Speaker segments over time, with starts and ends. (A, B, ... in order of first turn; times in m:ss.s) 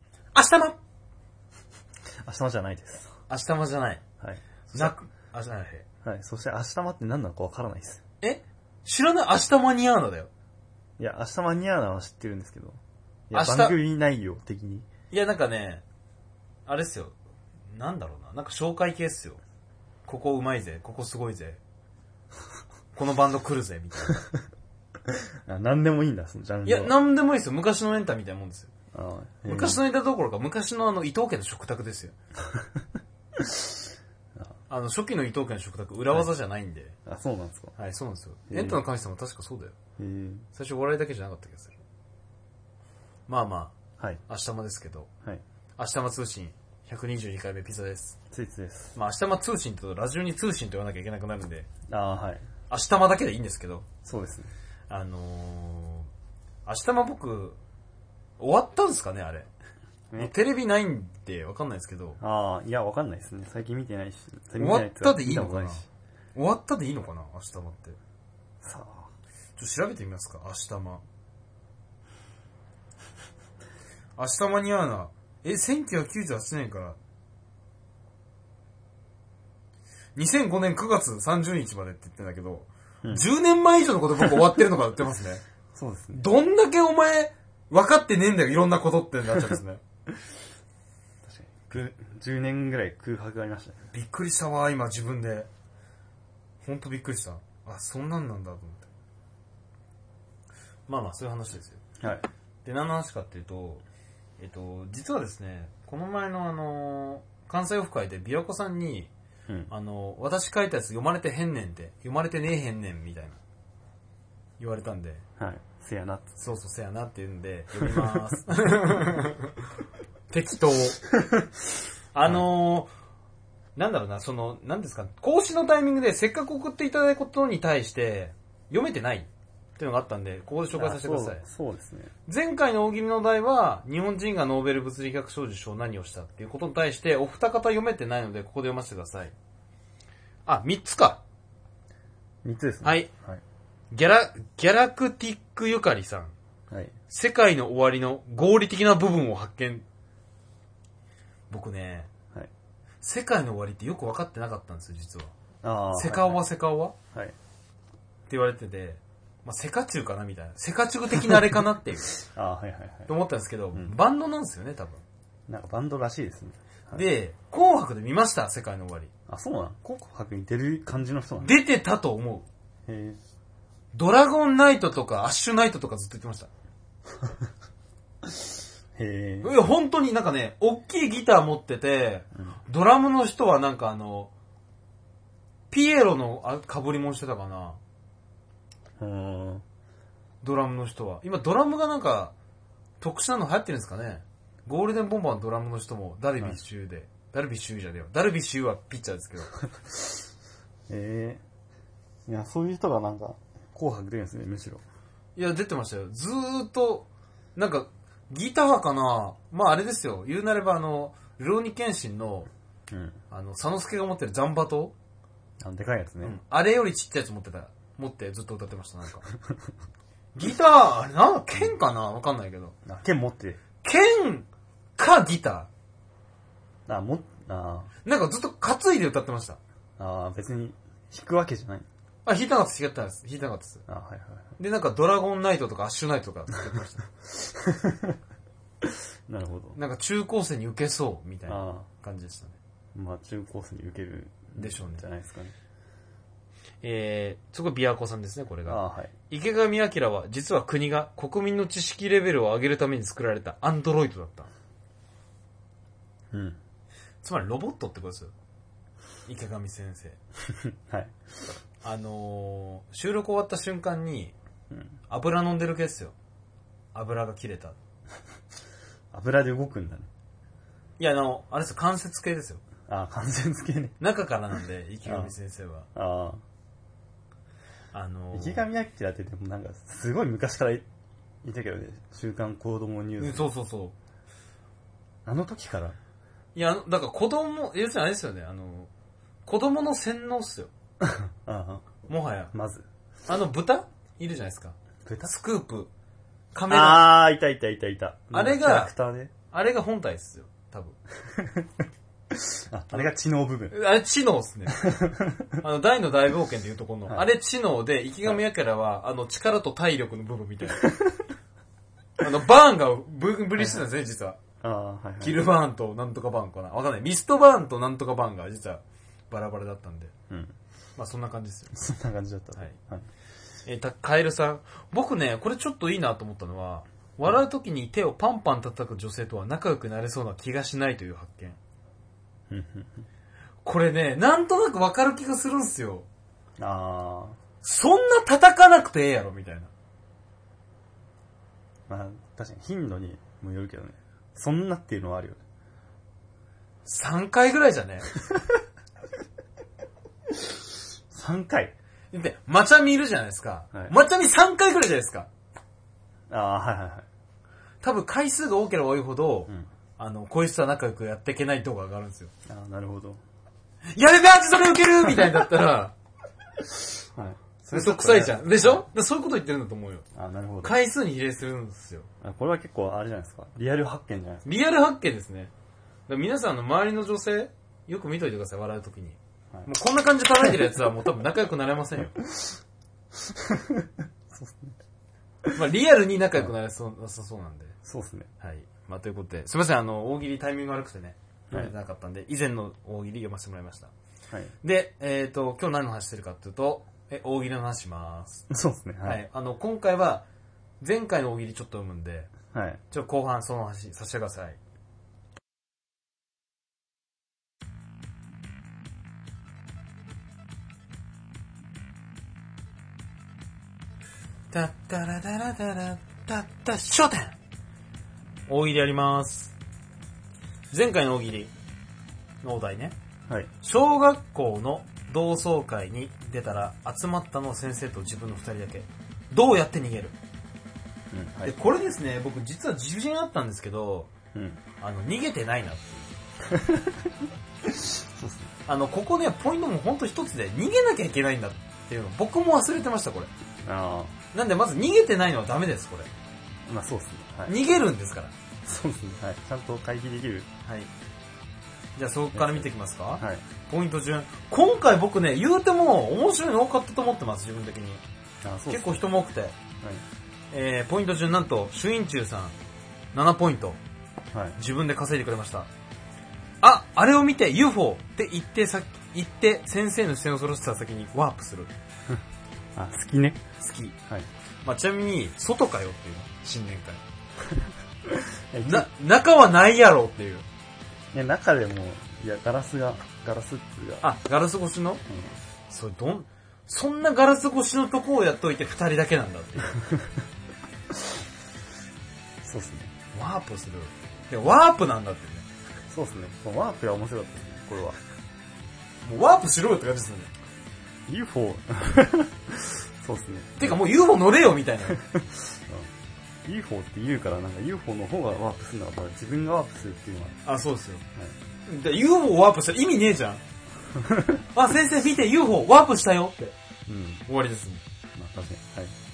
0:00.3-0:00.8 A
0:02.2-0:03.1 B
0:03.3-0:04.0 A
0:04.2-0:05.0 B
0:04.7-0:05.8 A
0:06.0-0:08.0 B
0:08.2-0:10.3 A
0:11.0-0:14.9 B
0:13.3-0:13.8 A
0:15.1-0:15.8 A
0:16.7-0:17.1 A
0:17.7-0:19.4 A
0:20.1-0:21.6 A
0:22.9-0:24.2 A
0:25.1-0:26.9 B
0:26.6-0:28.7 A
0:28.9-0:29.8 B
0:29.5-0:32.1 A
0:33.4-0:33.7 B
0:34.7-0:36.9 A
0:37.0-0:37.7 B
0:37.8-0:39.8 A
0:38.5-0:38.8 B
0:40.0-0:40.5 B
0:40.5-0:41.8 A
0:43.3-0:43.8 A
0:44.3-0:45.1 A
0:45.8-0:48.2 A
0:48.3-0:49.0 B
0:48.9-0:51.7 A
0:51.9-0:52.4 B
0:52.7-0:53.9 A
0:54.0-0:54.5 B
0:54.9-0:56.1 A
0:56.6-0:57.6 A
0:58.4-0:59.5 A
1:00.2-1:02.2 A
1:02.2-1:05.9 B
1:04.6-1:05.8 A
1:06.3-1:08.0 A
1:08.6-1:09.1 B
1:09.6-1:11.0 A
1:14.2-1:17.0 A
1:20.2-1:25.4 A
1:25.8-1:26.2 B
1:26.1-1:29.8 A
1:31.2-1:33.8 B
1:33.9-1:35.5 A
1:36.6-1:38.9 A
1:40.9-1:41.8 A
1:42.0-1:42.2 B
1:42.6-1:43.8 A
1:44.4-1:49.1 A
1:49.7-1:53.4 A
1:54.6-1:55.2 A
1:55.4-1:56.4 B
1:56.4-1:59.5 A
1:57.8-1:59.0 B
2:00.3-2:01.0 A
2:02.1-2:02.9 A
2:03.8-2:11.4 A
2:10.7-2:12.1 B
2:12.3-2:19.3 A
2:20.4-2:21.2 A
2:22.4-2:23.4 B
2:22.8-2:23.1 A
2:23.9-2:26.3 A
2:26.7-2:26.9 B
2:27.1-2:29.8 A
2:31.5-2:32.1 A
2:33.0-2:35.3 A
2:35.6-2:36.4 B
2:35.9-2:36.9 A
2:38.3-2:42.2 A
2:42.2-2:43.1 B
2:43.1-2:45.0 A
2:45.5-2:47.0 B
2:46.9-2:49.1 A
2:49.3-2:51.6 B
2:51.4-2:52.5 A
2:52.9-2:53.2 B
2:53.9-2:56.5 A
2:58.2-2:59.5 B
2:59.4-3:04.3 A
3:05.7-3:07.8 A
3:09.0-3:09.6 B
3:10.4-3:12.3 A
3:13.0-3:19.5 A
3:20.9-3:21.4 B
3:22.3-3:24.8 B
3:25.4-3:32.5 A
3:32.9-3:33.2 B
3:33.3-3:34.9 A
3:35.6-3:36.4 B
3:36.2-3:39.3 A
3:40.3-3:42.7 A
3:42.8-3:43.6 B
3:43.8-3:45.7 A
3:46.9-3:47.9 B
3:48.0-3:49.6 A
3:50.0-3:51.8 B
3:52.2-3:53.8 A
3:53.9-3:54.5 B
3:54.6-3:57.0 A
3:57.4-3:58.2 B
3:58.8-3:59.8 B
3:59.7-4:02.6 A
4:01.5-4:01.9 B
4:02.9-4:05.5 B
4:04.6-4:05.0 A
4:06.8-4:14.5 A
4:08.7-4:09.1 B
4:16.3-4:16.6 B
4:17.2-4:18.3 A
4:19.3-4:20.2 A
4:20.5-4:21.1 B
4:21.8-4:24.3 A
4:25.1-4:26.1 A
4:26.9-4:27.8 A
4:29.1-4:30.1 B
4:31.0-4:32.6 A
4:32.9-4:34.0 B
4:34.0-4:35.9 A
4:35.0-4:35.3 B
4:35.9-4:36.4 B
4:37.9-4:38.6 A
4:38.3-4:40.8 B
4:41.4-4:43.5 B
4:43.2-4:43.9 A
4:45.2-4:46.0 B
4:46.5-4:48.9 A
4:49.4-4:50.7 A
4:51.0-4:51.9 B
4:52.1-4:52.5 A
4:52.5-4:52.8 B
4:53.3-4:55.9 A
4:55.0-4:55.3 B
4:56.5-4:57.2 A
4:56.7-4:59.3 B
4:58.3-4:58.9 A
4:59.5-5:01.0 A
5:01.3-5:01.8 B
5:02.3-5:03.7 B
5:03.7-5:04.9 A
5:04.7-5:05.6 B
5:05.6-5:10.9 A
5:12.2-5:14.4 A
5:13.6-5:13.9 B
5:14.6-5:15.5 B
5:15.2-5:20.1 A
5:21.0-5:21.9 A
5:21.7-5:23.1 B
5:23.6-5:31.6 A
5:32.5-5:33.0 B
5:33.6-5:36.1 A
5:36.6-5:37.4 B
5:37.6-5:39.7 A
5:41.9-5:45.4 B
5:46.8-5:48.1 A
5:51.1-5:51.7 B
5:52.1-5:55.3 A
5:56.3-5:57.0 B
5:57.8-6:02.3 A
6:02.4-6:03.2 B
6:03.9-6:05.9 A
6:07.1-6:08.8 B
6:07.7-6:10.0 A
6:10.1-6:10.8 B
6:10.6-6:12.1 A
6:12.2-6:14.4 B
6:14.4-6:15.5 A
6:16.1-6:22.2 A
6:23.3-6:24.8 B
6:25.5-6:27.8 A
6:27.8-6:28.3 B
6:28.4-6:33.9 A
6:34.6-6:38.5 A
6:38.5-6:39.2 B
6:39.0-6:40.2 A
6:40.8-6:42.3 A
6:42.5-6:42.8 B
6:42.9-6:44.6 A
6:54.5-6:57.3 A
6:58.5-6:59.5 A
7:00.7-7:01.5 A
7:02.4-7:03.0 A
7:03.6-7:10.2 A
7:11.1-7:11.5 B
7:11.4-7:14.1 A
7:14.3-7:14.6 B
7:14.8-7:16.2 A
7:16.4-7:18.5 B
7:18.6-7:23.3 A
7:23.6-7:24.1 B
7:24.3-7:26.1 A
7:26.6-7:27.6 B
7:27.4-7:28.3 A
7:28.6-7:30.5 B
7:30.6-7:30.9 A
7:32.0-7:38.0 A
7:32.3-7:33.4 B
7:38.4-7:39.1 B
7:38.7-7:39.5 A
7:40.5-7:42.6 A
7:43.1-7:43.8 A
7:44.3-7:44.6 B
7:44.6-7:45.7 A
7:46.6-7:51.7 A
7:52.7-7:53.4 B
7:53.6-7:53.9 A
7:54.6-7:57.0 A
7:57.5-7:58.9 B
7:58.6-8:00.4 A
8:01.1-8:04.0 B
8:04.0-8:05.0 A
8:05.1-8:05.3 B
8:05.7-8:09.8 A
8:09.8-8:10.1 B
8:12.4-8:12.9 B
8:13.1-8:15.5 A
8:15.9-8:18.0 B
8:19.0-8:20.3 A
8:21.1-8:23.8 B
8:23.6-8:25.0 A
8:24.9-8:25.9 B
8:26.4-8:30.4 B
8:30.4-8:31.0 A
8:31.6-8:33.4 A
8:33.9-8:34.4 B
8:34.5-8:36.6 A
8:36.9-8:37.2 B
8:37.3-8:37.8 A
8:38.1-8:38.9 B